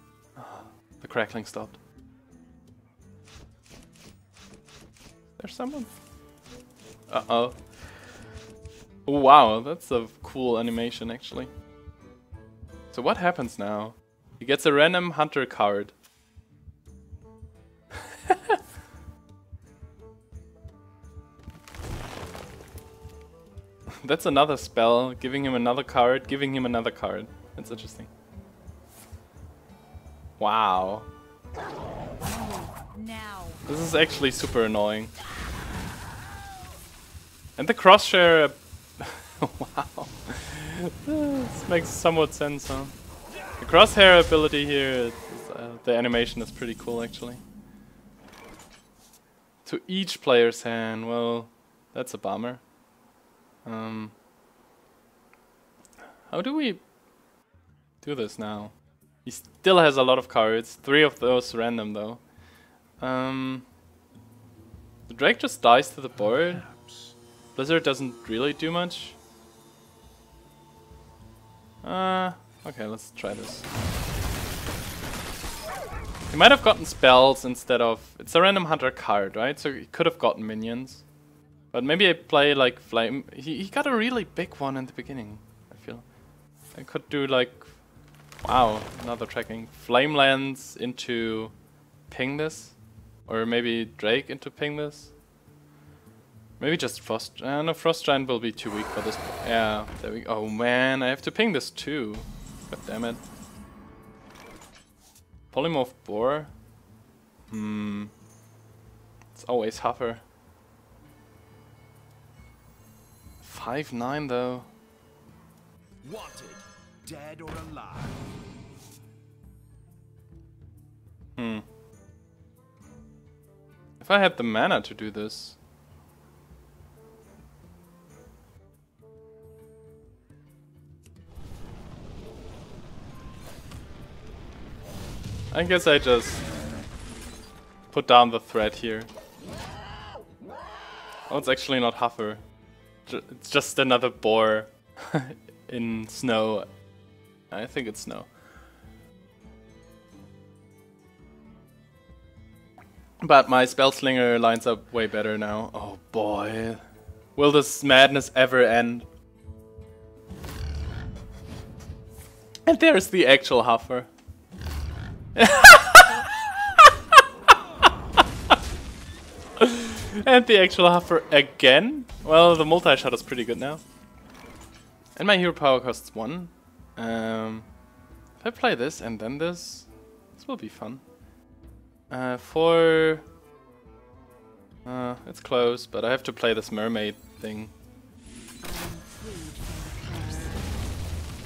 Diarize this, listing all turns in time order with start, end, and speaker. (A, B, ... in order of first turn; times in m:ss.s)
0:00.4-0:01.8 A
0:05.4-0:05.9 A
0:07.1-0:07.6 A
0:09.0-0:11.5 A
0:12.9-0:15.9 A
0:18.3-0:18.6 A
0:24.0-0:28.1 A
0:30.4-0:31.1 A
0:32.2-0:33.6 B
0:33.6-0:35.1 A
0:37.6-0:42.9 A
0:43.6-0:47.4 A
0:49.6-0:52.6 A
0:53.6-0:54.1 A
0:56.3-0:56.8 A
0:58.0-0:58.7 A
0:59.2-1:02.2 A
1:03.0-1:03.7 A
1:05.1-1:06.7 A
1:06.6-1:07.1 C
1:07.6-1:09.2 A
1:11.8-1:13.7 A
1:16.3-1:21.0 A
1:21.7-1:26.0 A
1:26.7-1:27.7 A
1:28.4-1:31.5 A
1:32.1-1:35.1 A
1:36.6-1:43.2 A
1:45.5-1:46.5 A
1:47.5-1:48.1 A
1:49.3-1:50.2 A
1:53.4-1:54.7 A
1:56.0-1:58.3 C
2:01.4-2:01.6 A
2:04.0-2:05.6 A
2:15.5-2:16.4 A
2:17.9-2:19.1 A
2:21.3-2:22.4 A
2:23.1-2:26.7 A
2:27.5-2:28.3 A
2:33.2-2:36.8 A
2:37.4-2:39.0 A
2:42.6-2:44.1 A
2:45.3-2:47.2 A
2:49.6-2:53.8 A
2:55.2-2:57.7 A
2:58.4-3:01.0 A
3:02.1-3:03.2 A
3:04.8-3:07.7 A
3:08.6-3:10.8 B